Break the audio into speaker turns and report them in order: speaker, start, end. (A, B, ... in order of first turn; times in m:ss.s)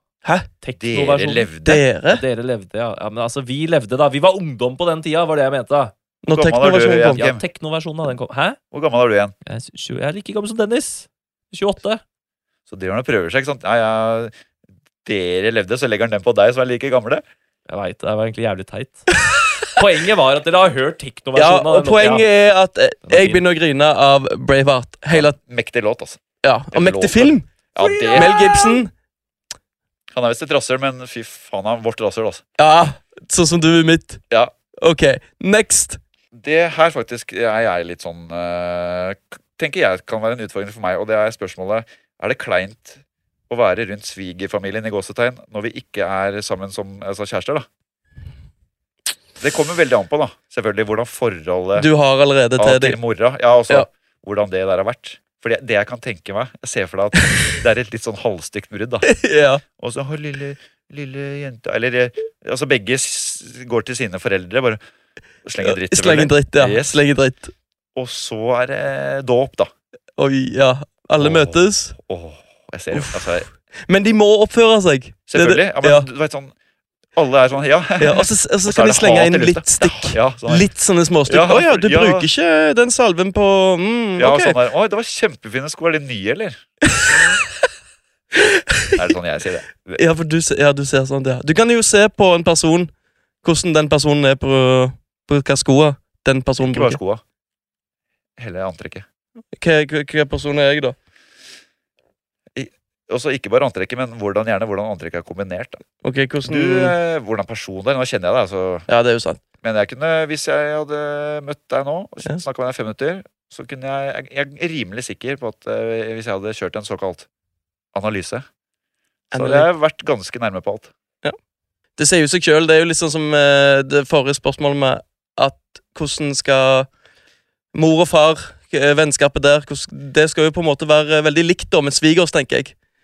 0:00.6-0:01.5 A
0:00.8-0:01.8 B
0:01.6-0:02.2 C
0:02.1-0:05.9 A
0:06.2-0:07.2 C
0:06.3-0:07.4 B
0:07.1-0:08.6 A
0:08.7-0:09.3 B
0:09.4-0:12.0 A
0:12.7-0:14.3 B
0:15.0-0:17.2 B
0:17.7-0:22.3 A
0:21.4-0:25.4 C
0:23.1-0:23.4 A
0:25.1-0:26.2 B
0:26.4-0:27.5 C
0:26.7-0:28.3 B
0:27.8-0:28.8 A
0:28.1-0:28.9 C
0:30.1-0:32.4 B
0:32.6-0:34.2 C
0:34.8-0:36.0 C
0:36.3-0:47.6 B
0:49.4-0:51.9 B
0:51.8-0:53.0 C
0:52.6-0:59.1 B
0:57.2-0:57.4 C
0:59.0-0:59.6 C
0:59.8-1:04.8 B
1:05.4-1:07.0 B
1:05.6-1:07.5 C
1:07.9-1:09.7 B
1:10.2-1:11.9 C
1:11.2-1:13.5 B
1:12.9-1:16.1 C
1:15.3-1:16.5 B
1:17.1-1:20.7 B
1:18.0-1:24.6 C
1:21.3-1:22.3 B
1:24.2-1:26.7 B
1:26.9-1:27.2 C
1:28.3-1:29.0 C
1:29.0-1:30.0 B
1:29.9-1:32.9 C
1:33.4-1:37.0 C
1:36.7-1:37.2 B
1:38.4-1:39.0 B
1:39.6-1:40.9 C
1:42.5-1:45.8 B
1:46.0-1:46.9 C
1:46.4-1:48.9 B
1:48.9-1:49.4 C
1:49.6-1:57.3 B
1:57.9-1:58.4 B
1:59.3-1:59.7 C
1:59.3-2:00.9 B
2:02.0-2:06.9 C
2:07.7-2:12.7 C